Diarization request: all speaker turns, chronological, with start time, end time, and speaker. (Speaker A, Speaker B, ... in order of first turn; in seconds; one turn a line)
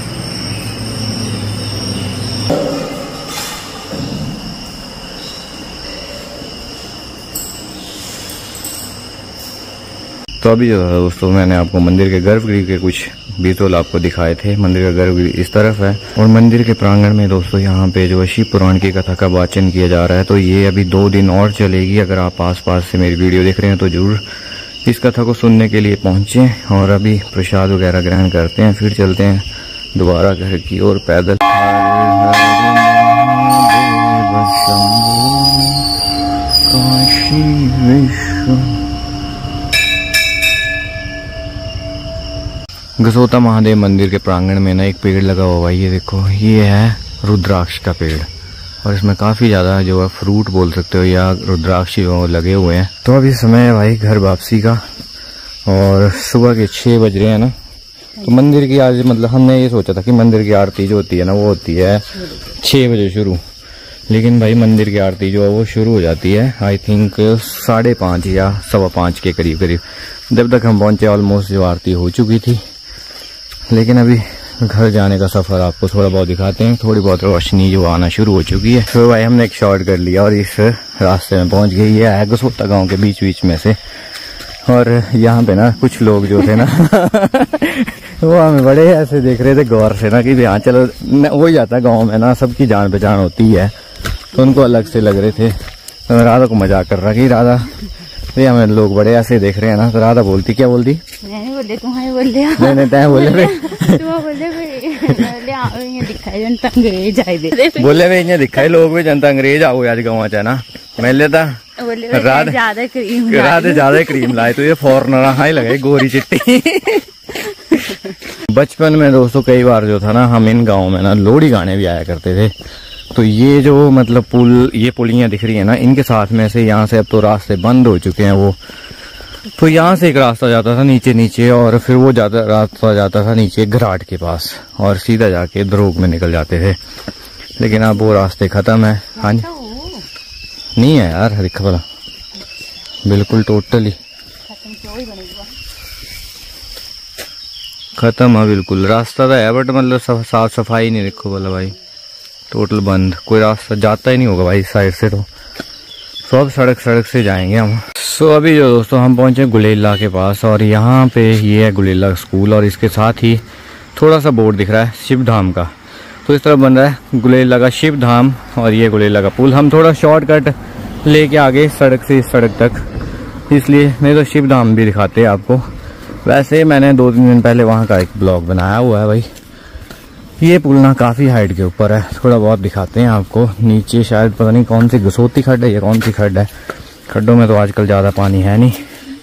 Speaker A: 10.4-24.2
Speaker A: 24.9-35.9
Speaker A: 36.7-38.8
Speaker A: 43.0-48.3
Speaker A: 48.8-54.8
Speaker A: 55.7-57.5
Speaker A: 58.2-63.4
Speaker A: 64.1-72.6
Speaker A: 73.7-83.8
Speaker A: 84.7-93.7
Speaker A: 94.3-95.5
Speaker A: 96.1-97.7
Speaker A: 98.3-101.0
Speaker B: 101.2-108.0
Speaker A: 102.6-104.0
Speaker A: 107.7-112.6
Speaker B: 111.8-114.4
Speaker A: 113.3-117.1
Speaker A: 118.3-122.5
Speaker A: 123.1-128.6
Speaker A: 129.6-136.8
Speaker A: 137.6-139.5
Speaker B: 139.2-140.1
Speaker A: 140.8-141.8
Speaker A: 143.1-144.0
Speaker B: 144.5-145.6
Speaker A: 148.0-151.8
Speaker A: 152.5-155.3
Speaker A: 156.3-163.4
Speaker A: 163.9-165.7
Speaker A: 166.2-170.5
Speaker A: 171.1-172.8
Speaker A: 173.5-175.6
Speaker A: 176.2-179.3
Speaker A: 180.4-186.5
Speaker A: 187.1-188.8